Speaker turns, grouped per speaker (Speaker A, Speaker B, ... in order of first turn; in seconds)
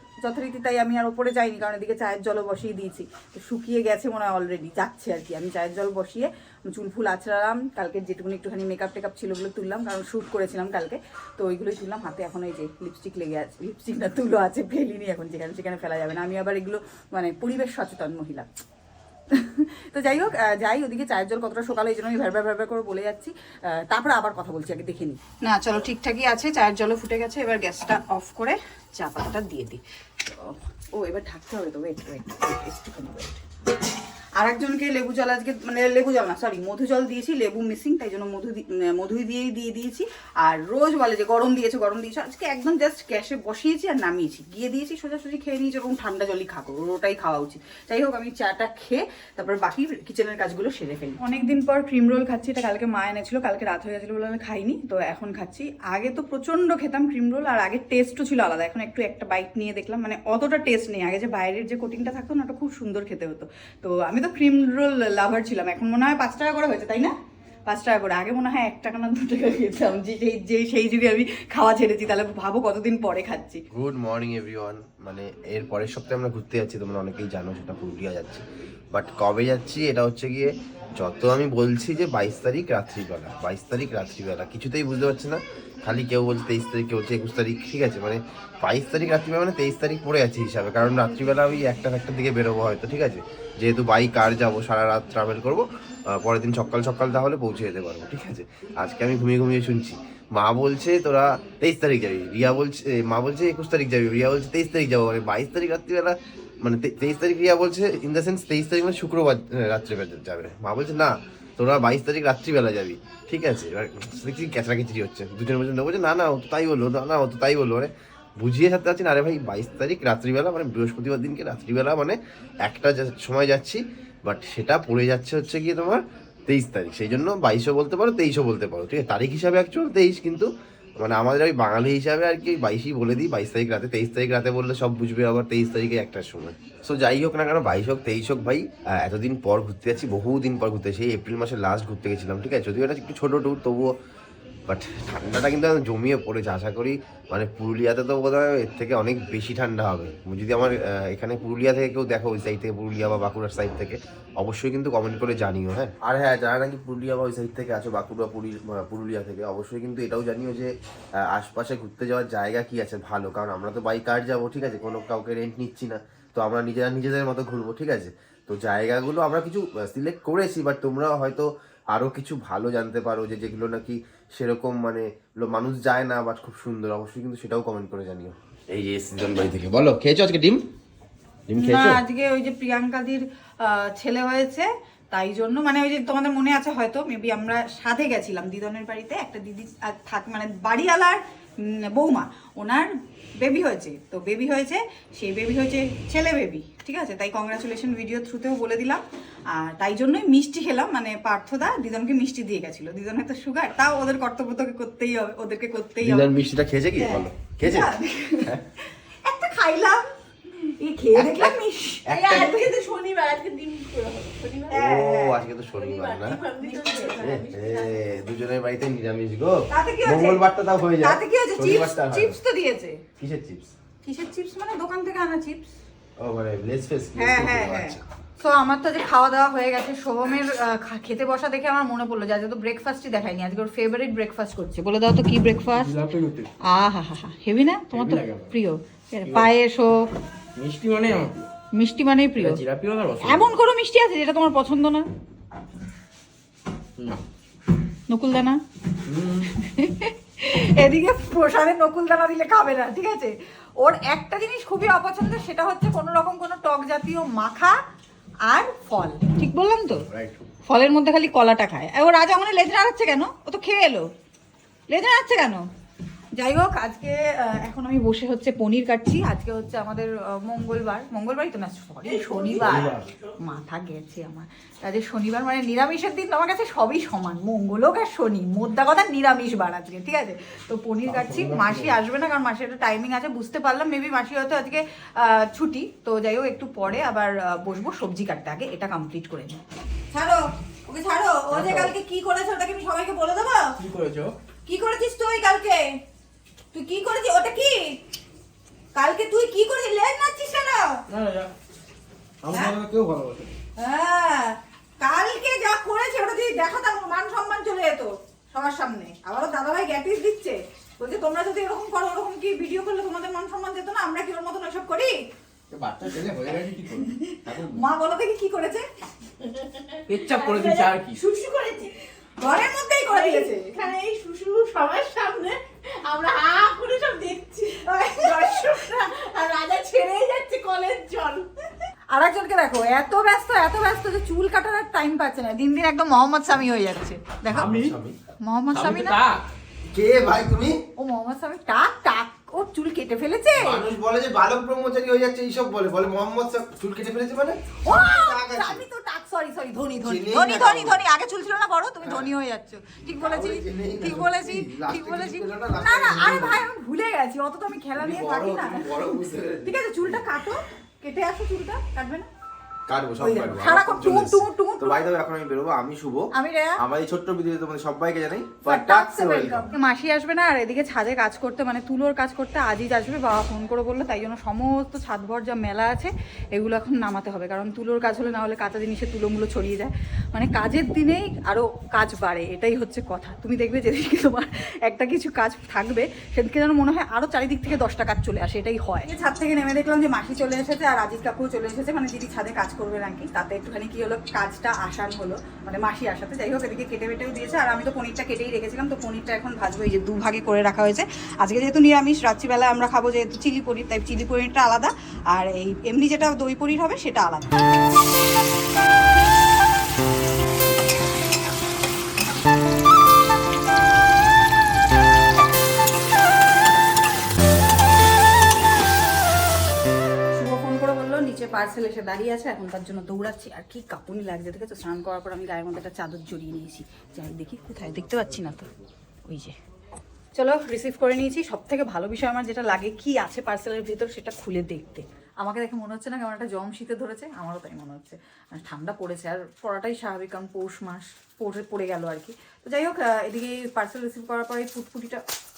Speaker A: 0.2-18.5, 19.3-33.4, 34.4-67.1, 67.7-73.6, 181.6-206.3, 207.0-210.1, 210.6-212.7, 214.7-215.4, 216.4-217.4, 219.7-220.4, 221.0-223.0, 224.0-225.7, 227.1-235.9, 236.7-240.1, 241.7-242.6, 243.2-245.1, 248.1-248.6, 249.5-257.8, 258.5-260.1, 260.7-264.1, 264.9-265.6, 266.4-289.6, 290.1-293.7, 294.6-295.8, 296.7-298.0, 298.9-301.0, 302.5-302.8, 303.8-315.1, 316.9-318.9, 319.4-324.0, 326.1-331.2, 332.1-339.2, 341.0-343.8, 347.8-359.1, 359.6-362.3, 363.2-365.1, 366.3-366.8, 368.6-407.5, 420.3-428.7, 429.2-429.5, 430.3-445.2
Speaker B: 73.7-130.5, 131.0-143.9, 144.7-180.6, 181.5-182.0, 206.0-208.6, 211.1-212.6, 214.7-216.4, 217.2-222.4, 223.2-223.7, 226.2-228.0, 260.1-260.4, 337.5-338.1, 339.9-340.8, 343.6-348.8, 350.0-351.0, 352.0-352.3, 353.2-356.6, 357.9-360.3, 362.9-366.3, 366.8-369.7
Speaker C: 212.1-214.8, 215.8-217.9, 272.1-272.7, 323.1-325.5, 326.1-327.6, 328.1-331.7
Speaker D: 235.7-236.5, 237.9-238.5, 240.6-241.5, 242.4-243.5, 249.1-249.5, 272.6-273.1, 281.1-282.0, 291.5-291.9, 293.8-294.4, 301.1-301.5, 302.4-303.5, 315.8-317.1, 320.1-321.2, 337.5-337.9, 338.7-339.5